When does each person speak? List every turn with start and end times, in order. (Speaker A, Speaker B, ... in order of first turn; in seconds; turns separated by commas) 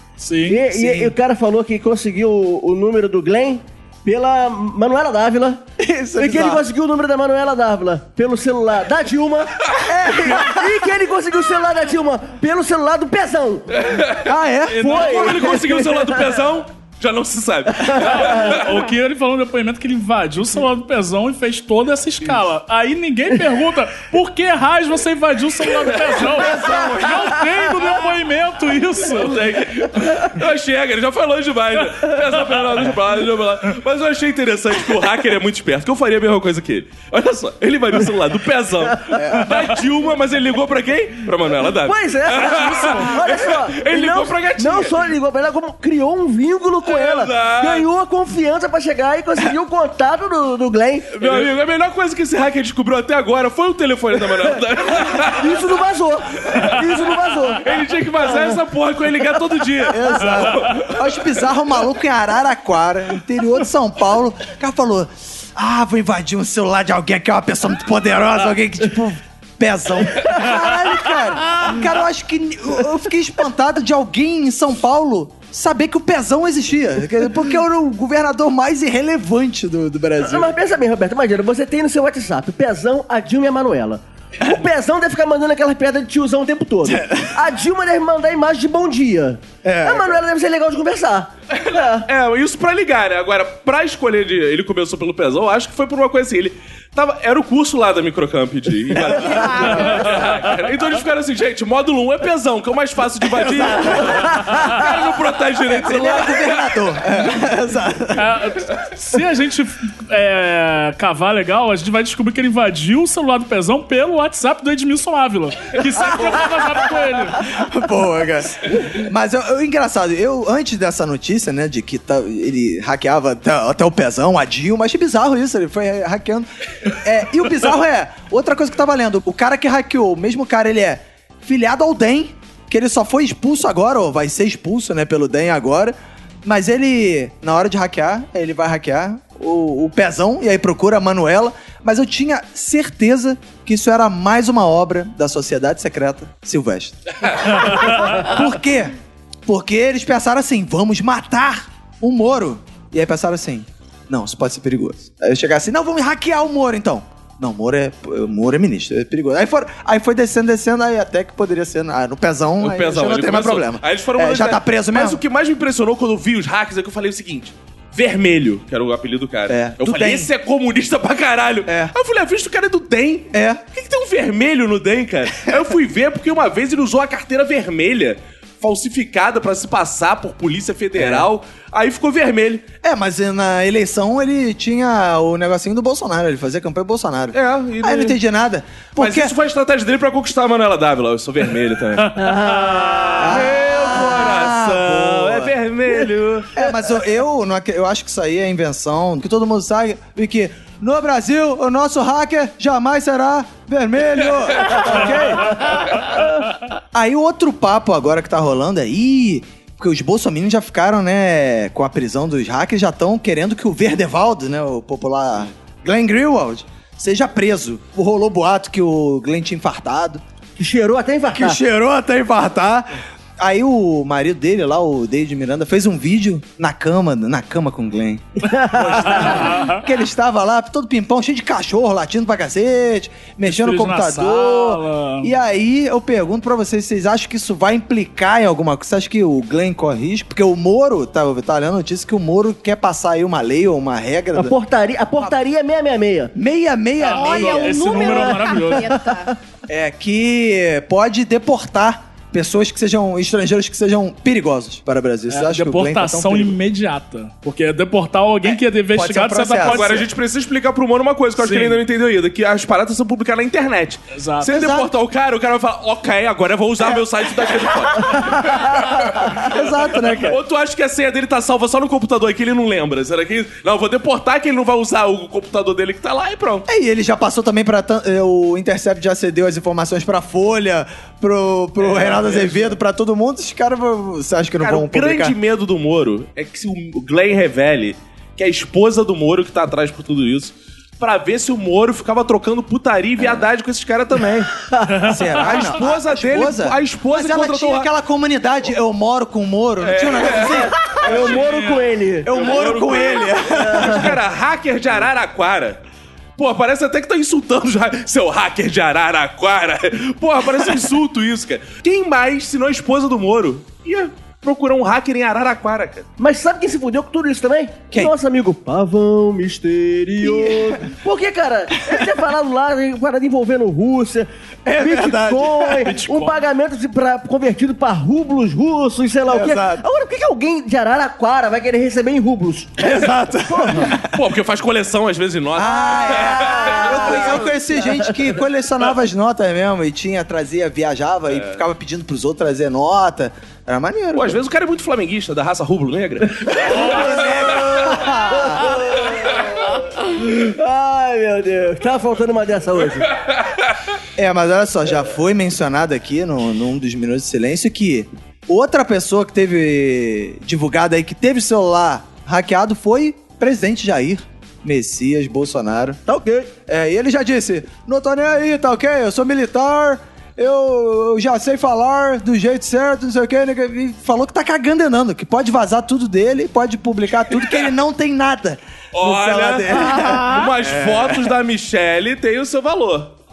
Speaker A: 0.2-1.1, Speaker B: 0.5-5.6, Speaker C: 5.8-6.6, Speaker B: 6.2-13.9, Speaker C: 9.8-10.8, Speaker D: 13.8-14.3, Speaker C: 14.2-14.9, Speaker B: 14.8-16.3, Speaker A: 14.8-15.4, Speaker D: 14.8-18.8, Speaker A: 18.0-29.5, Speaker D: 26.1-27.1, Speaker C: 26.3-27.3, Speaker D: 29.2-45.1, Speaker C: 39.2-39.6, Speaker B: 41.9-51.4, Speaker A: 42.8-43.1, Speaker D: 46.9-47.9, Speaker D: 51.1-55.6, Speaker B: 55.1-57.7, Speaker D: 57.6-61.0, Speaker B: 58.2-58.6, Speaker C: 59.9-80.5, Speaker B: 80.2-92.1, Speaker C: 86.8-87.4, Speaker C: 89.6-90.2, Speaker D: 92.0-106.8, Speaker E: 98.9-100.2, Speaker C: 103.4-104.2, Speaker A: 104.3-104.8, Speaker C: 105.7-108.4, Speaker A: 108.2-117.5, Speaker C: 117.4-148.9, Speaker C: 149.5-165.2, Speaker D: 162.6-182.7, Speaker C: 169.5-170.3, Speaker C: 171.7-171.9, Speaker C: 173.3-173.6, Speaker C: 181.0-181.3, Speaker C: 182.8-189.3, Speaker D: 187.3-188.2, Speaker D: 189.0-192.2, Speaker B: 192.2-193.5, Speaker A: 192.2-193.0, Speaker C: 193.2-195.5, Speaker D: 193.2-196.5, Speaker C: 196.5-205.6, Speaker C: 206.9-220.2, Speaker B: 220.6-221.6, Speaker C: 221.3-244.6, Speaker B: 228.5-229.5, Speaker A: 228.9-229.8, Speaker A: 233.5-235.3, Speaker B: 244.3-246.3, Speaker C: 246.3-248.4, Speaker A: 247.1-248.9, Speaker E: 247.1-249.4, Speaker B: 248.0-248.3, Speaker C: 249.7-256.6, Speaker A: 255.3-260.0, Speaker C: 258.5-260.0, Speaker D: 259.6-276.7, Speaker A: 261.4-261.8, Speaker A: 264.1-264.5, Speaker C: 264.5-264.9, Speaker C: 269.4-270.4, Speaker C: 276.7-285.4, Speaker D: 281.8-282.7, Speaker D: 284.6-294.5, Speaker B: 294.7-295.1, Speaker C: 295.1-301.0, Speaker D: 295.4-297.9, Speaker D: 299.8-301.4, Speaker B: 300.9-302.4, Speaker A: 301.1-301.9, Speaker C: 302.2-304.2, Speaker D: 302.3-305.8, Speaker B: 303.5-304.1, Speaker D: 306.4-316.1, Speaker B: 316.2-333.9, Speaker C: 320.2-320.8, Speaker C: 324.6-325.9, Speaker A: 325.8-326.4, Speaker C: 329.3-329.8, Speaker C: 332.8-334.1, Speaker D: 334.1-337.4, Speaker C: 335.6-344.4, Speaker B: 336.1-338.3, Speaker D: 341.3-341.6, Speaker D: 344.1-347.9, Speaker C: 346.6-348.7, Speaker B: 346.8-353.1, Speaker C: 354.2-366.0, Speaker B: 366.1-366.5, Speaker C: 366.5-381.3, Speaker D: 378.9-383.1, Speaker E: 379.8-380.5